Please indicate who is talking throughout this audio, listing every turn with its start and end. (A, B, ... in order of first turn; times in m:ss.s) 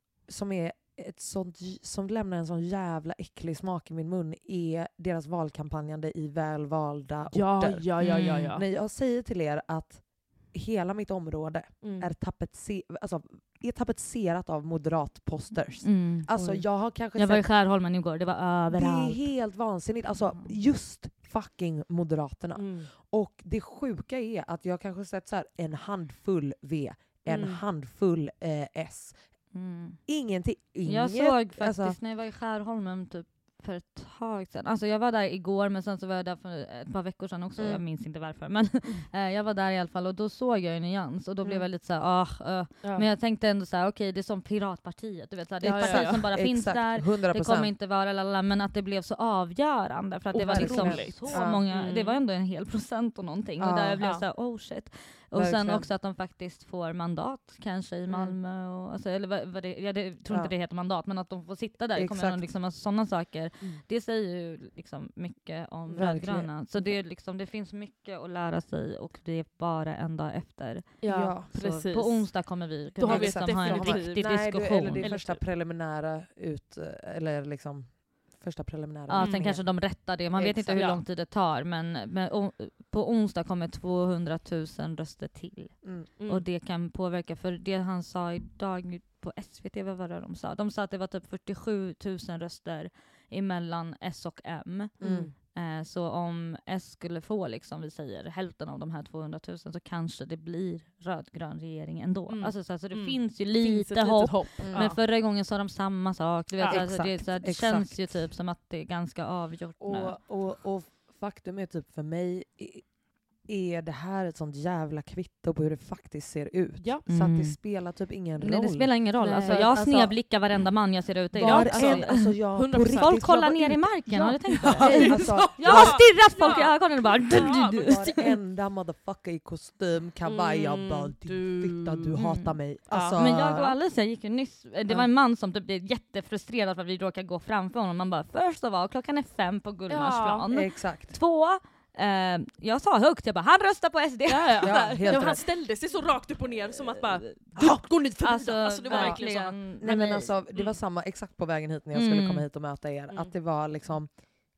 0:00.2-0:17.5 A
0:07.3-0:08.6 B
0:08.0-0:08.5 C
0:11.8-0:12.1 B
0:15.8-0:16.3 C
0:16.3-0:16.6 B
0:17.1-0:19.3 C
0:18.7-0:29.4 A
0:22.6-0:22.9 B
0:27.3-0:27.6 B
0:29.5-0:30.0 C
0:30.1-0:32.0 A
0:30.8-1:15.1 C
0:37.6-0:37.8 A
0:45.6-0:47.7 A
0:45.6-0:46.3 B
0:50.3-0:52.2 B
0:50.4-0:51.6 A
0:53.6-0:54.1 A
0:55.3-0:55.9 A
1:01.9-1:02.5 A
1:05.9-1:07.0 A
1:11.0-1:15.4 B
1:11.1-1:11.5 A
1:13.0-1:20.9 A
1:19.1-1:50.2 C
1:19.2-1:19.5 B
1:20.7-1:21.0 B
1:25.8-1:26.1 A
1:26.2-1:26.4 B
1:35.0-1:35.3 B
1:35.0-1:35.3 A
1:42.3-1:45.0 B
1:44.6-1:44.9 A
1:46.6-1:46.8 B
1:46.7-1:48.1 A
1:49.8-1:52.9 A
1:53.4-2:00.2 A
1:57.1-1:57.6 C
1:58.4-2:08.1 C
2:01.3-2:04.1 A
2:01.4-2:03.3 B
2:04.1-2:08.1 B
2:04.6-2:06.3 A
2:07.3-2:13.8 A
2:10.2-2:12.2 B
2:12.2-2:12.5 C
2:12.9-2:13.2 B
2:13.1-2:25.4 C
2:19.9-2:20.4 B
2:20.5-2:21.2 A
2:24.3-2:29.6 B
2:24.6-2:25.4 A
2:27.6-2:27.9 A
2:28.2-2:30.4 C
2:28.8-2:29.3 A
2:29.8-2:34.2 A
2:31.9-2:32.4 C